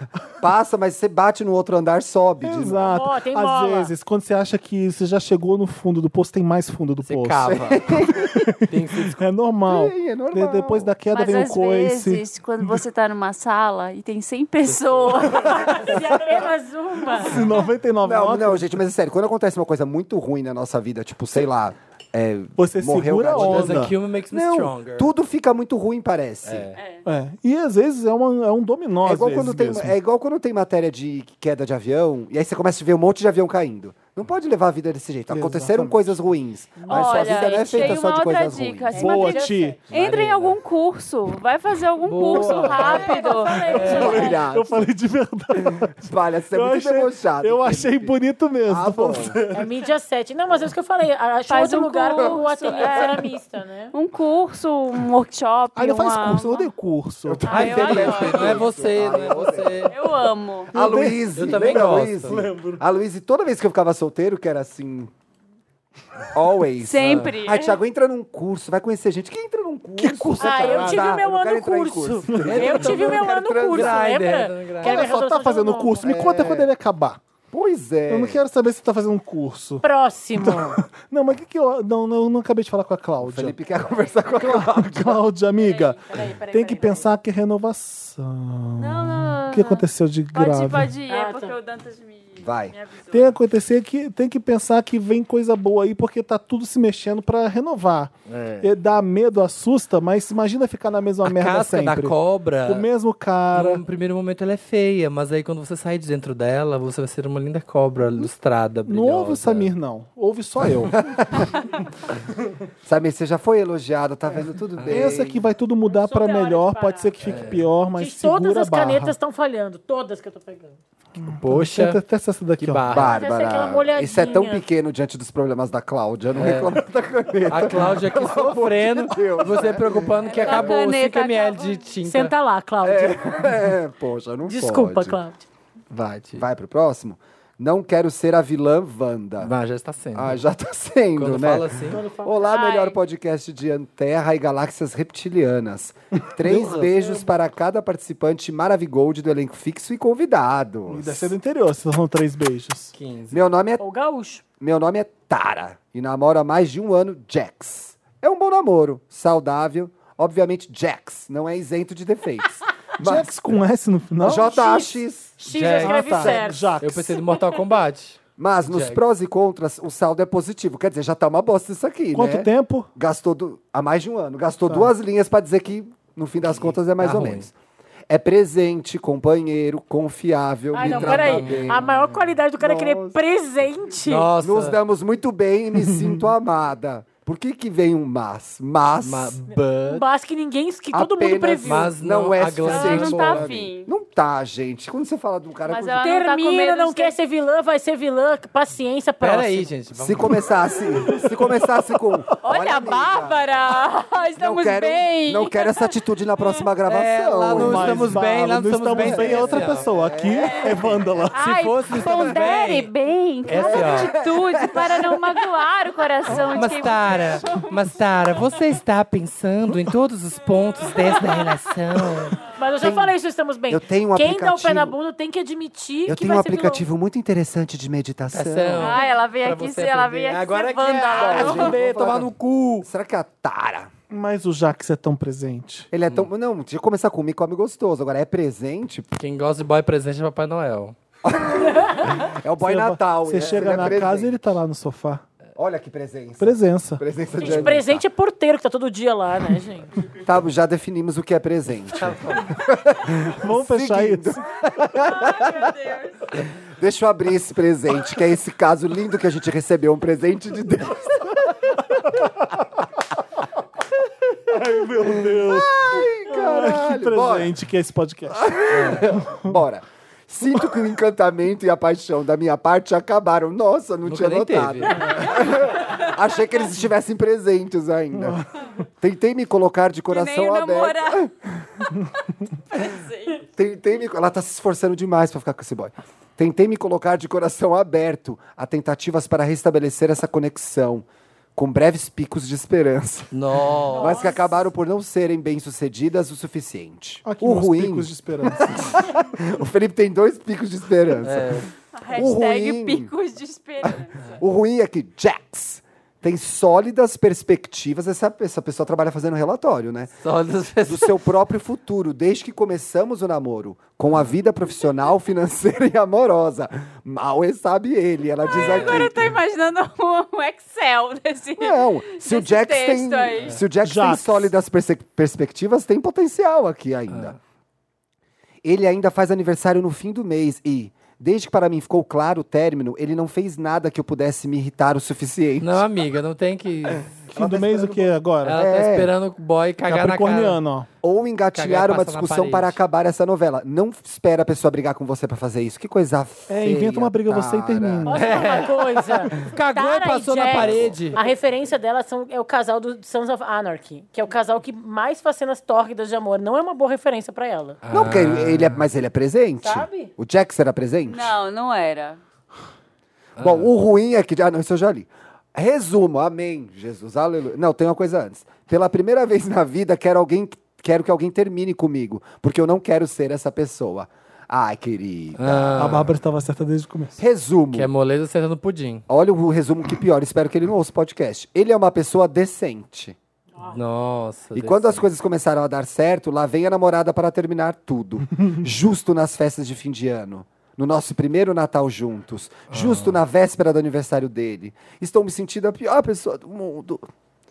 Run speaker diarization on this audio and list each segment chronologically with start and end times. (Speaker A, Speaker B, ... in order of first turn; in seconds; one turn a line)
Speaker A: 0.4-2.9
Speaker B: 2.4-7.6
Speaker C: 2.8-3.9
Speaker D: 7.0-8.0
Speaker A: 7.4-8.5
Speaker B: 8.3-12.8
Speaker D: 8.7-9.2
Speaker A: 9.7-10.9
Speaker E: 11.1-16.0
Speaker D: 14.7-15.5
Speaker C: 15.3-17.4
Speaker B: 17.2-18.8
Speaker A: 18.0-26.7
Speaker B: 22.6-23.9
Speaker D: 23.3-25.1
Speaker D: 26.4-26.8
Speaker E: 26.8-27.0
Speaker B: 27.1-29.9
Speaker A: 29.0-39.1
Speaker B: 35.3-36.1
Speaker C: 36.8-38.0
Speaker E: 36.9-44.3
Speaker C: 38.9-39.8
Speaker B: 38.9-39.9
Speaker D: 39.9-40.6
Speaker D: 42.0-44.3
Speaker C: 42.3-44.4
Speaker B: 43.5-49.7
Speaker A: 43.9-44.9
Speaker A: 45.6-48.1
Speaker A: 48.7-49.4
Speaker C: 49.5-53.9
Speaker E: 51.5-53.3
Speaker E: 53.9-56.7
Speaker B: 55.7-57.9
Speaker A: 57.3-59.9
Speaker E: 57.5-58.7
Speaker D: 57.5-60.0
Speaker E: 59.9-60.7
Speaker B: 60.7-62.8
Speaker A: 60.7-65.1
Speaker D: 61.4-62.4
Speaker A: 66.3-74.0
Speaker E: 66.8-67.8
Speaker D: 67.0-67.3
Speaker B: 70.0-71.1
Speaker C: 70.4-76.1
Speaker B: 72.3-72.9
Speaker D: 72.5-75.1
Speaker B: 74.8-77.2
Speaker A: 76.0-76.7
Speaker A: 77.5-78.4
Speaker B: 78.1-79.8
Speaker C: 79.8-80.8
Speaker B: 80.4-83.6
Speaker A: 83.2-85.2
Speaker B: 84.4-90.9
Speaker C: 85.6-87.1
Speaker E: 88.8-93.1
Speaker C: 91.1-91.6
Speaker A: 92.4-92.7
Speaker B: 93.1-103.8
Speaker D: 98.3-98.7
Speaker D: 101.2-102.9
Speaker D: 103.5-109.7
Speaker B: 108.8-111.5
Speaker A: 110.9-111.5
Speaker A: 112.8-115.4
Speaker D: 114.8-115.2
Speaker B: 114.9-119.2
Speaker E: 115.9-117.1
Speaker C: 116.1-116.9
Speaker D: 117.2-117.7
Speaker C: 118.0-120.8
Speaker B: 121.1-123.1
Speaker D: 121.3-122.0
Speaker D: 122.6-123.2
Speaker A: 122.9-130.8
Speaker C: 123.1-124.6
Speaker D: 126.3-126.7
Speaker D: 127.5-132.3
Speaker E: 130.2-131.9
Speaker C: 132.1-133.5
Speaker A: 132.8-135.2
Speaker C: 134.4-135.4
Speaker D: 135.9-136.4
Speaker A: 136.4-139.5
Speaker D: 139.4-140.4
Speaker A: 140.1-151.3
Speaker D: 141.2-142.0
Speaker B: 141.9-142.3
Speaker E: 142.3-143.0
Speaker B: 146.5-146.9
Speaker B: 150.9-152.9
Speaker D: 152.9-153.4
Speaker A: 153.3-153.8
Speaker C: 153.8-154.4
Speaker A: 154.6-163.3
Speaker B: 163.0-164.7
Speaker A: 164.2-165.3
Speaker C: 164.4-166.8
Speaker D: 165.5-168.2
Speaker B: 165.6-167.2
Speaker A: 168.4-177.5
Speaker D: 168.7-169.0
Speaker B: 172.1-172.9
Speaker D: 176.5-177.5
Speaker A: 178.1-181.8
Speaker C: 180.7-184.3
Speaker D: 180.8-182.3
Speaker A: 182.6-183.2
Speaker D: 184.1-184.8
Speaker A: 184.4-189.4
Speaker B: 185.9-186.2
Speaker D: 189.0-190.0
Speaker C: 189.8-191.9
Speaker A: 190.9-196.1
Speaker D: 191.7-193.5
Speaker E: 192.6-193.9
Speaker E: 195.7-197.2
Speaker C: 196.0-199.7
Speaker D: 199.2-200.5
Speaker A: 199.9-203.5
Speaker B: 201.1-201.6
Speaker E: 202.4-206.7
Speaker A: 204.4-208.3
Speaker D: 206.9-209.9
Speaker B: 207.5-211.7
Speaker A: 208.9-211.3
Speaker E: 210.4-210.8
Speaker E: 211.3-217.7
Speaker D: 211.4-212.9
Speaker A: 212.0-212.4
Speaker D: 213.4-214.1
Speaker A: 213.6-215.4
Speaker D: 216.4-222.4
Speaker C: 222.5-226.8
Speaker A: 222.8-223.2
Speaker A: 223.7-224.9
Speaker A: 226.1-229.0
Speaker D: 228.3-232.9
Speaker E: 228.8-231.8
Speaker A: 231.1-233.9
Speaker B: 234.1-235.9
Speaker A: 235.9-239.2
Speaker D: 239.2-240.9
Speaker A: 241.2-244.3
Speaker B: 242.6-245.2
Speaker A: 245.6-248.0
Speaker B: 246.4-247.0
Speaker D: 247.4-247.8
Speaker C: 247.4-249.9
Speaker A: 250.2-255.7
Speaker D: 252.0-252.4
Speaker B: 253.3-254.4
Speaker E: 254.9-256.3
Speaker A: 256.3-261.8
Speaker B: 262.0-262.5
Speaker B: 264.5-268.6
Speaker A: 265.0-267.5
Speaker A: 268.3-278.4
Speaker D: 268.7-269.2
Speaker B: 269.2-269.6
Speaker D: 274.1-275.2
Speaker B: 278.2-278.4
Speaker A: 279.0-281.3
Speaker E: 280.1-281.3
Speaker E: 282.7-283.4
Speaker A: 283.6-293.3
Speaker D: 293.3-294.2
Speaker A: 293.9-303.1
Speaker E: 293.9-294.5
Speaker C: 294.1-294.3
Speaker B: 297.2-298.8
Speaker D: 301.2-301.7
Speaker E: 301.9-304.4
Speaker A: 303.8-310.2
Speaker D: 310.2-311.2
Speaker A: 310.9-319.2
Speaker E: 318.4-323.6
Speaker D: 318.6-319.1
Speaker A: 321.6-327.4
Speaker B: 323.8-324.5
Speaker A: 328.6-335.8
Speaker D: 335.6-337.2
Speaker B: 337.3-338.6
Speaker A: 337.3-339.1
Speaker D: 338.4-340.6
Speaker B: 339.9-340.9
Speaker A: 341.0-348.1
Speaker D: 341.6-342.8
Speaker B: 346.5-348.6
Speaker C: 348.1-357.8
Speaker D: 348.1-351.2
Speaker A: 350.5-351.1
Speaker D: 357.8-358.9
Speaker A: 357.9-361.4
Speaker C: 359.6-360.1
Speaker E: 361.1-362.2
Speaker D: 363.4-363.7
Speaker A: 363.4-376.1
Speaker D: 375.4-376.1
Speaker B: 375.8-377.2
Speaker A: 377.2-377.9
Speaker D: 377.7-379.1
Speaker A: 379.1-383.2
Speaker D: 383.7-385.1
Speaker A: 384.6-397.1
Speaker D: 392.7-393.2